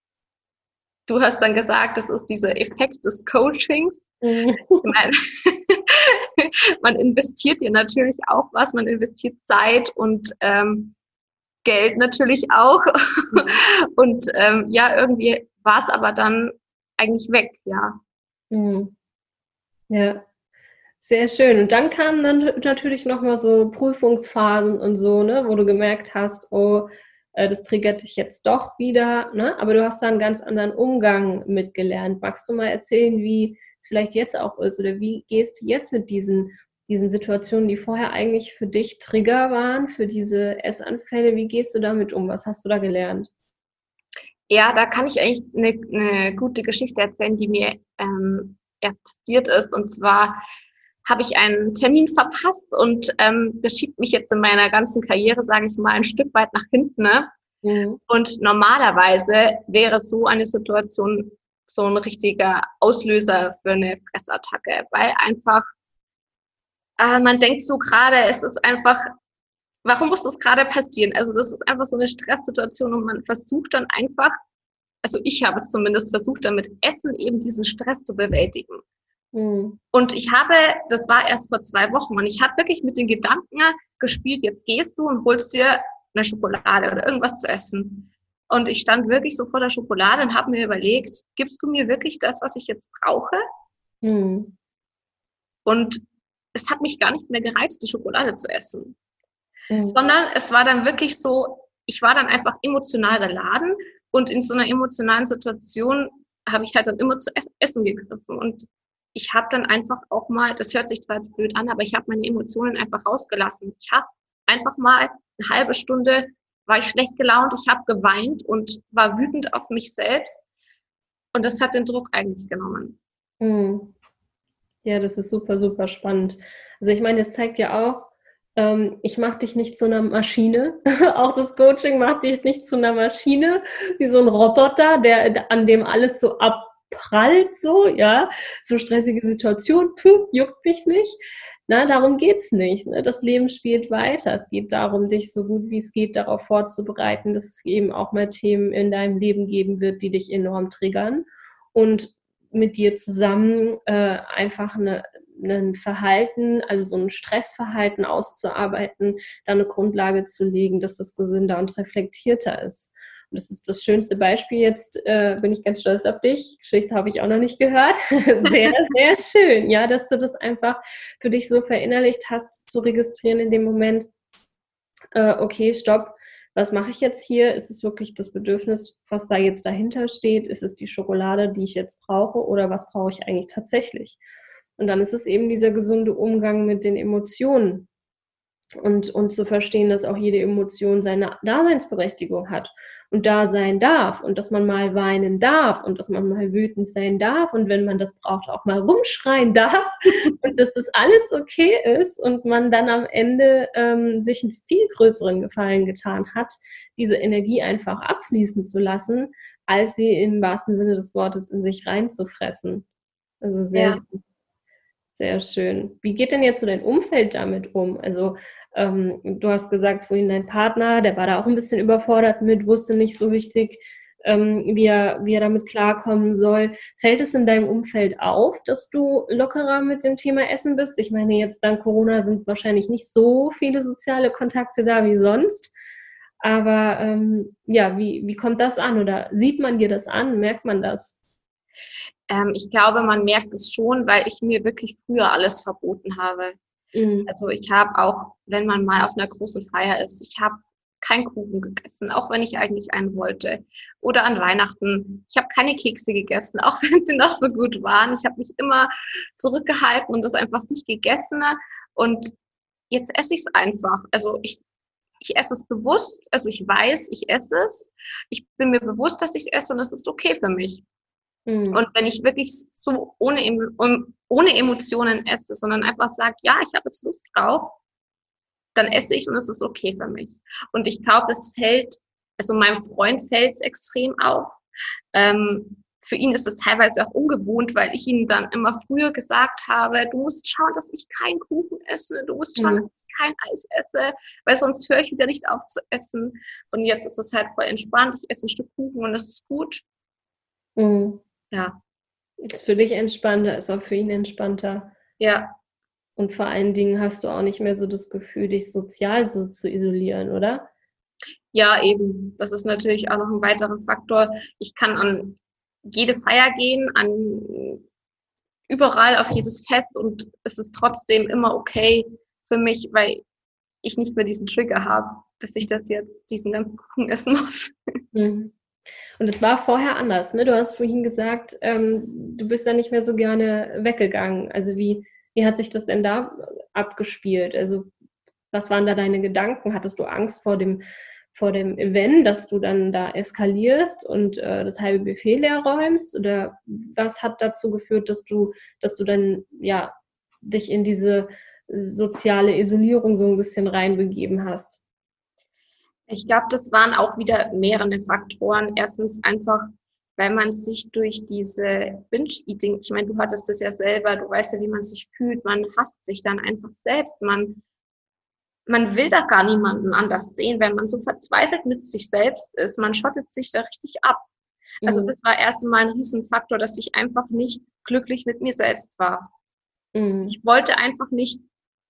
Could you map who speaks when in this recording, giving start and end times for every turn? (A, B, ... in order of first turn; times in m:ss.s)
0:01.1-0:04.0 A
0:04.2-0:04.8 B
0:04.8-0:10.9 A
0:11.6-0:18.0 A
0:18.5-0:18.9 B
0:19.9-0:20.2 B
0:21.0-0:43.3 B
0:44.5-0:50.4 A
0:51.0-0:57.3 A
0:57.6-0:58.0 B
0:58.1-1:05.7 A
1:07.0-1:09.1 A
1:09.8-1:14.4 A
1:15.0-1:18.8 A
1:19.3-1:19.8 B
1:19.9-1:33.4 A
1:34.0-1:34.5 B
1:35.6-1:36.0 A
1:36.5-1:39.0 A
1:39.7-1:40.0 B
1:39.8-2:00.4 A
2:01.3-2:03.0 A
2:03.4-2:03.9 B
2:04.8-2:54.1 B
2:55.1-3:04.2 B
3:04.8-3:07.9 B
3:08.8-3:32.8 B
3:33.4-3:34.2 B
3:33.7-3:34.0 A
3:35.1-3:55.7 B
3:56.4-4:01.2 B
4:02.3-4:06.6 A
4:06.9-4:07.3 B
4:07.2-4:22.3 A
4:22.9-4:24.6 A
4:25.2-4:30.8 A
4:31.5-4:31.8 B
4:31.7-4:37.7 A
4:38.7-4:44.6 A
4:45.1-4:59.8 A
4:52.6-4:52.9 B
5:00.8-5:01.2 B
5:02.4-5:04.9 B
5:05.2-5:05.5 A
5:06.2-5:10.7 B
5:11.5-5:17.8 A
5:18.7-5:23.2 A
5:23.8-5:27.7 A
5:28.1-5:28.5 B
5:29.2-5:37.9 B
5:38.5-5:40.8 B
5:41.3-5:54.8 B
5:56.1-6:07.6 A
6:08.7-6:14.2 A
6:14.8-6:15.1 B
6:14.8-6:19.3 A
6:19.9-6:20.4 B
6:20.2-6:21.4 A